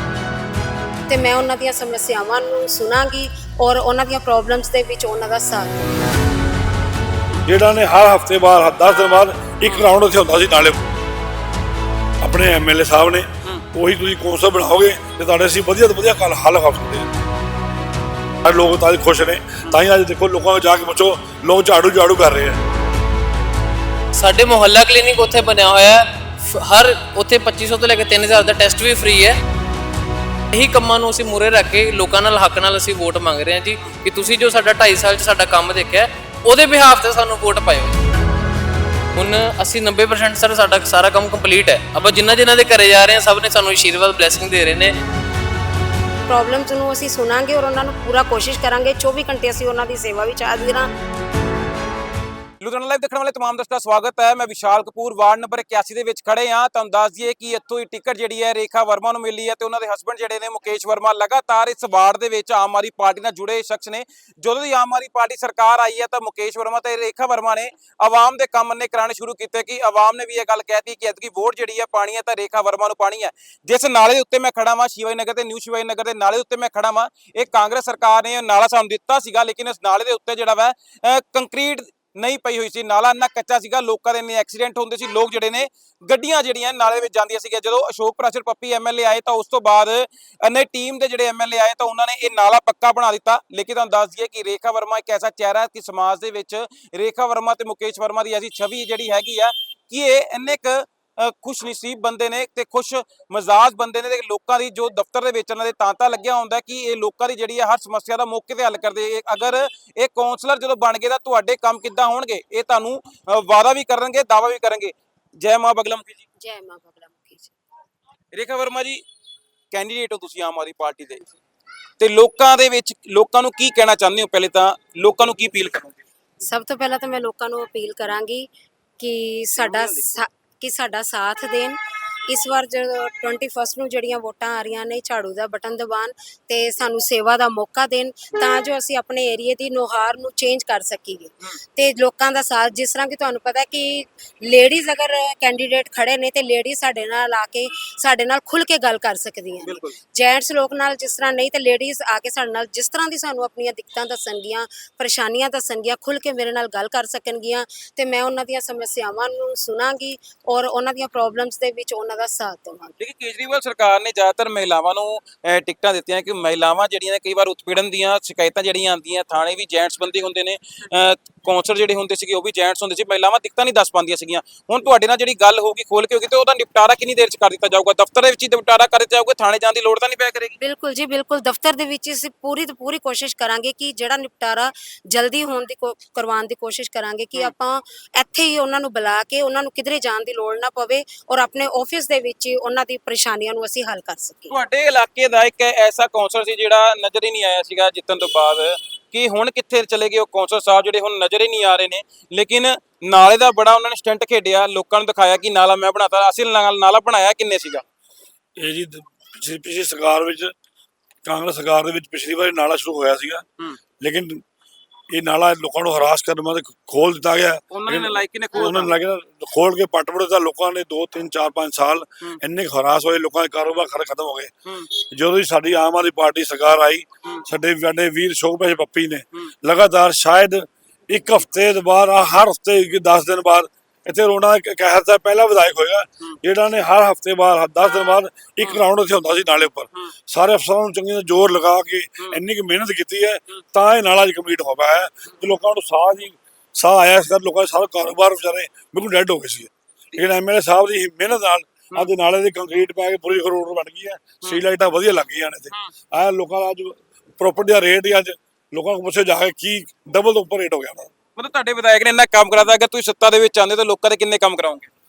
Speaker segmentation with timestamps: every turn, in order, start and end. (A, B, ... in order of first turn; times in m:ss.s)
0:01.1-0:05.8 A
0:07.5-0:10.8 B
0:12.2-0:17.1 B
0:18.4-0:22.6 B
0:24.2-0:29.4 C
0:30.5-0:38.0 C
0:39.2-0:45.0 C
0:46.3-0:50.9 A
0:52.6-1:56.2 D
1:56.4-1:57.5 A
1:58.3-1:59.0 D
1:59.7-2:01.3 D
2:02.0-2:06.0 D
2:06.4-2:43.0 A
2:09.6-2:10.1 D
2:29.6-2:30.0 D
2:43.0-3:00.6 D
3:00.6-3:14.6 A
3:14.5-3:27.8 D
3:28.6-3:30.5 B
3:31.2-3:33.4 B
3:34.0-3:34.4 B
3:35.1-4:21.1 B
3:37.7-3:38.9 D
4:21.4-4:24.9 D